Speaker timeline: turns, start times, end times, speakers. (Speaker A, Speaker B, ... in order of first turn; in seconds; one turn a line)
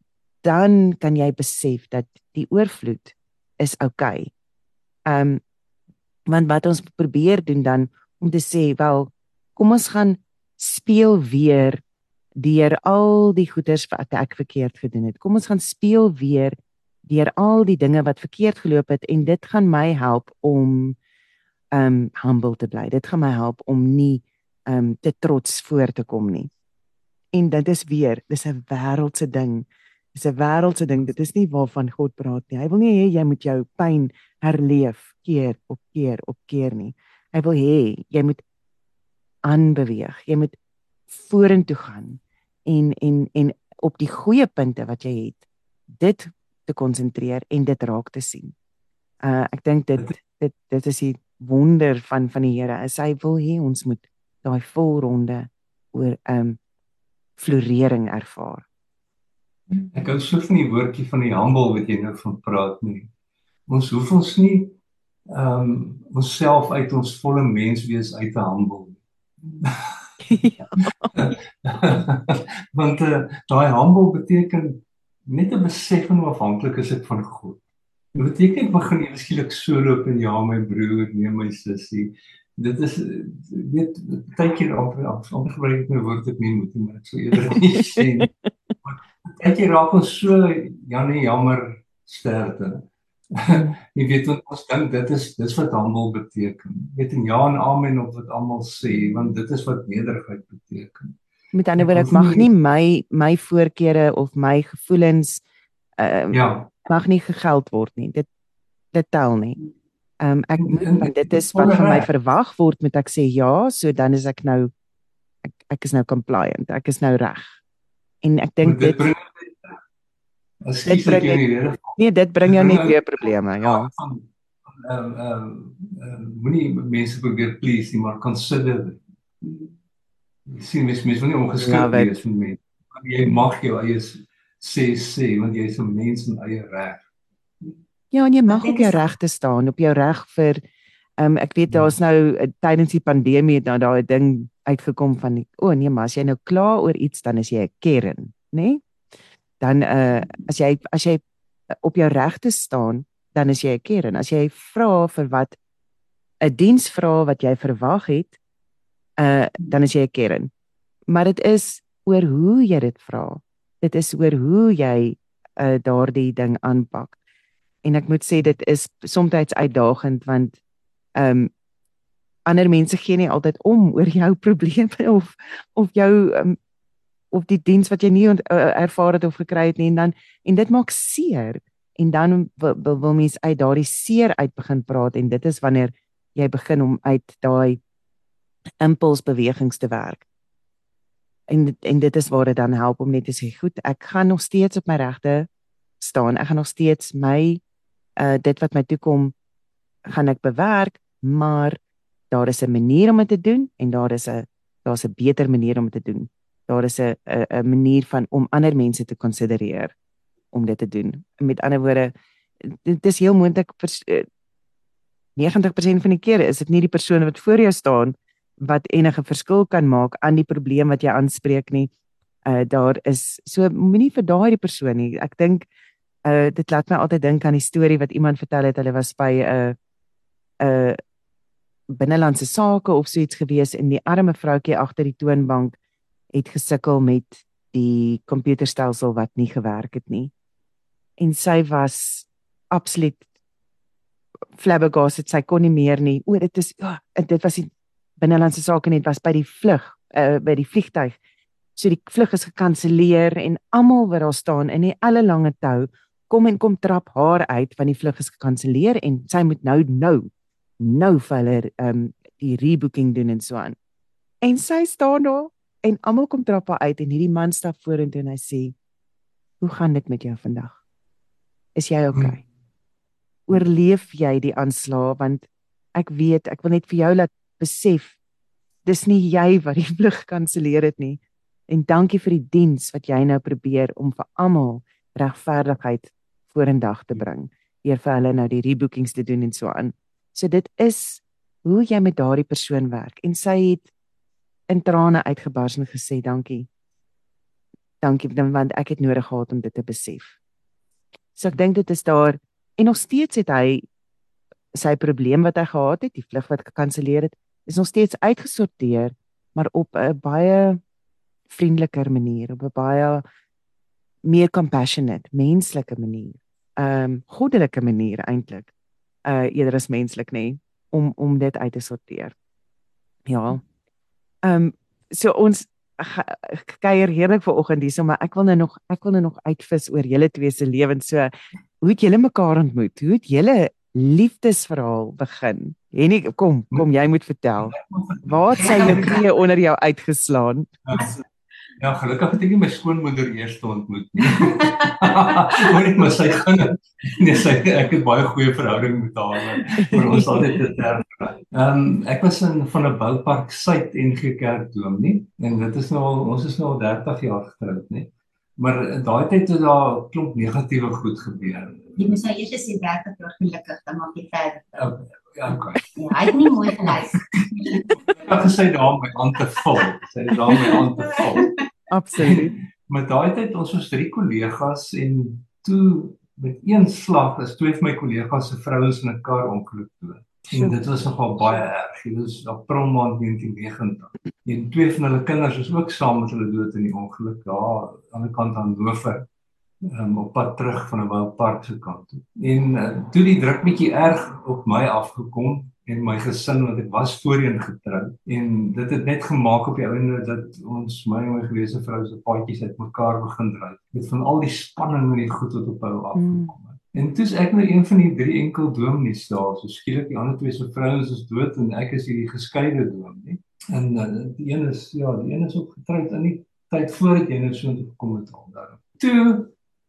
Speaker A: 0.4-4.3
Speaker A: 5.1-5.4
Speaker A: 6.3-11.8
Speaker A: 12.4-21.0
Speaker A: 21.7-26.5
Speaker A: 27.3-38.4
Speaker A: 39.4-40.5
Speaker A: 41.1-48.5
Speaker A: 49.2-56.6
Speaker A: 57.4-58.6
Speaker B: 59.9-63.1
Speaker B: 63.7-64.7
Speaker B: 65.3-69.0
Speaker B: 69.6-69.9
Speaker A: 70.2-71.1
Speaker B: 71.1-77.6
Speaker B: 78.2-88.3
Speaker A: 88.0-88.2
Speaker B: 88.8-101.2
Speaker A: 101.5-105.4
Speaker B: 101.8-102.5
Speaker A: 106.0-108.3
Speaker B: 106.3-106.7
Speaker A: 108.9-109.6
Speaker A: 110.2-114.7
Speaker B: 110.6-112.1
Speaker A: 115.5-117.6
Speaker A: 118.2-119.0
Speaker B: 118.6-119.8
Speaker B: 120.6-129.0
Speaker A: 120.9-121.4
Speaker A: 121.9-123.9
Speaker B: 130.4-137.0
Speaker A: 131.6-132.2
Speaker A: 138.1-140.6
Speaker C: 138.5-139.0
Speaker A: 141.2-148.8
Speaker A: 149.6-151.2
Speaker A: 151.8-155.6
Speaker A: 156.4-158.3
Speaker A: 159.2-160.5
Speaker A: 161.1-167.1
Speaker A: 167.8-170.6
Speaker A: 171.2-171.5
Speaker A: 172.4-176.6
Speaker A: 177.3-187.8
Speaker A: 188.8-190.2
Speaker A: 191.5-195.5
Speaker A: 196.0-197.6
Speaker A: 198.2-199.3
Speaker A: 200.1-201.8
Speaker A: 202.3-209.9
Speaker A: 210.5-212.1
Speaker A: 212.7-214.3
Speaker A: 215.3-221.9
Speaker A: 222.4-225.7
Speaker A: 226.2-229.7
Speaker A: 230.6-231.0
Speaker A: 231.9-235.7
Speaker A: 236.3-240.3
Speaker A: 241.2-243.2
Speaker A: 244.6-251.2
Speaker A: 251.8-260.3
Speaker A: 260.8-263.8
Speaker A: 264.4-268.7
Speaker A: 269.6-270.8
Speaker A: 271.7-272.4
Speaker A: 273.5-278.2
Speaker A: 278.8-293.9
Speaker A: 294.7-296.7
Speaker A: 298.0-300.4
Speaker A: 301.4-303.8
Speaker A: 304.7-310.8
Speaker A: 311.5-313.2
Speaker A: 314.2-318.7
Speaker A: 319.2-322.3
Speaker A: 323.3-323.6
Speaker A: 324.4-341.1
Speaker B: 337.6-339.1
Speaker C: 338.6-339.1
Speaker B: 340.9-341.1
Speaker B: 341.8-361.8
Speaker A: 349.8-350.3
Speaker C: 362.0-364.9
Speaker B: 364.8-366.1
Speaker C: 366.0-368.0
Speaker B: 368.1-371.5
Speaker C: 370.7-371.5
Speaker A: 371.9-372.6
Speaker B: 372.2-389.3
Speaker B: 389.8-419.5
Speaker A: 406.1-406.5